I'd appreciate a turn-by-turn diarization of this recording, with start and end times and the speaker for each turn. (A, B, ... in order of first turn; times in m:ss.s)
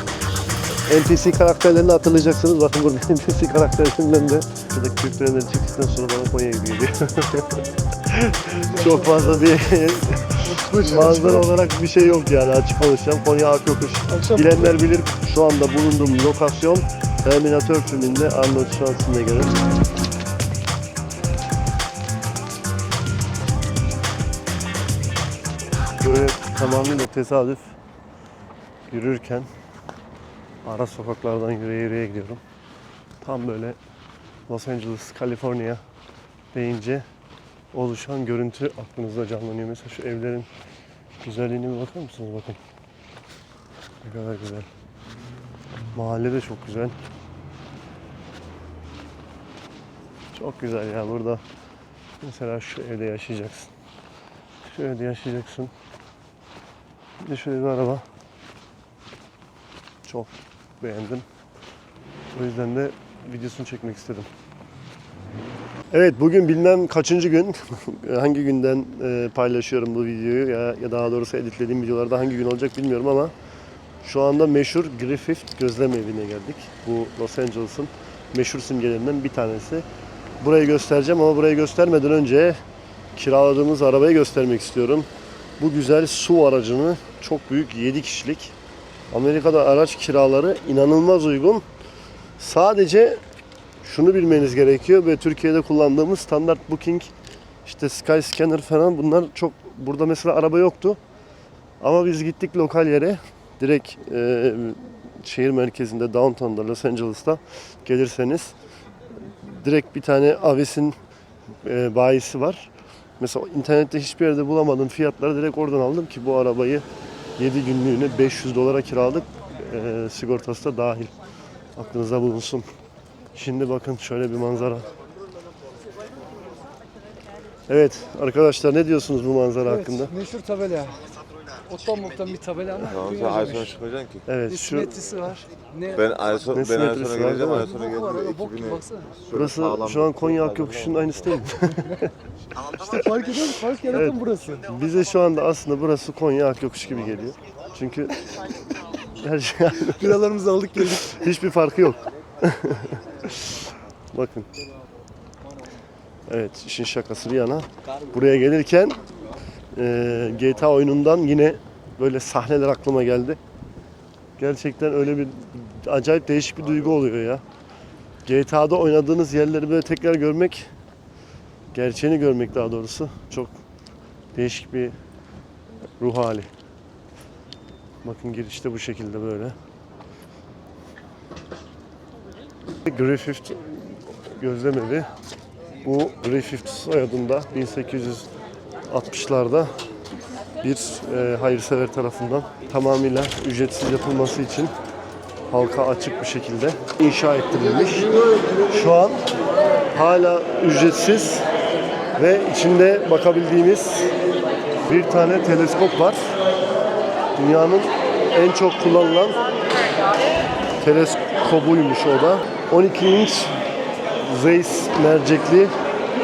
0:00.9-0:19.6 A
0:08.6-0:09.3 B
0:10.4-0:11.4 B
0:14.1-0:14.7 B
0:26.0-0:27.8 A
0:28.9-0:29.5 A
0:30.6-0:32.4 A
0:33.2-0:33.8 A
0:34.5-0:35.8 A
0:36.5-0:37.0 A
0:37.7-0:40.5 A
0:41.2-0:42.6 A
0:44.0-0:44.7 A
0:45.9-0:47.0 A
0:50.3-0:51.4 A
0:52.2-0:53.7 A
0:54.6-0:55.7 A
0:57.2-0:58.0 A
1:00.0-1:01.2 A
1:02.3-1:04.3 A
1:05.9-1:13.3 A
1:14.0-1:19.8 A
1:20.4-1:22.6 A
1:23.2-1:25.1 A
1:25.6-1:28.5 A
1:29.1-1:31.6 A
1:32.4-1:33.2 A
1:33.8-1:37.1 A
1:37.6-1:41.0 A
1:41.8-1:48.5 A
1:49.4-1:51.0 A
1:51.6-1:56.8 A
1:57.4-2:01.1 A
2:01.8-2:02.7 A
2:03.3-2:04.9 A
2:07.7-2:10.1 A
2:09.7-2:11.0 B
2:11.7-2:13.8 B
2:12.8-2:14.2 C
2:14.2-2:14.9 A
2:14.5-2:16.1 B
2:15.9-2:21.3 C
2:16.5-2:17.7 A
2:17.4-2:19.2 B
2:19.3-2:22.1 A
2:22.8-2:24.7 B
2:23.9-2:28.2 A
2:29.1-2:34.5 A
2:30.0-2:31.1 B
2:36.3-2:39.0 A
2:39.8-2:43.4 A
2:44.4-2:47.4 A
2:48.2-2:50.7 A
2:51.7-2:53.6 A
2:54.3-2:55.0 A
2:56.0-2:56.5 A
2:58.0-2:59.6 A
3:02.8-3:05.1 A
3:05.8-3:08.3 A
3:08.9-3:09.7 A
3:10.6-3:14.7 A
3:15.5-3:18.1 A
3:18.7-3:19.2 A
3:19.9-3:21.4 A
3:22.2-3:24.1 A
3:24.9-3:26.3 A
3:27.4-3:29.4 A
3:30.8-3:33.5 A
3:34.2-3:35.7 A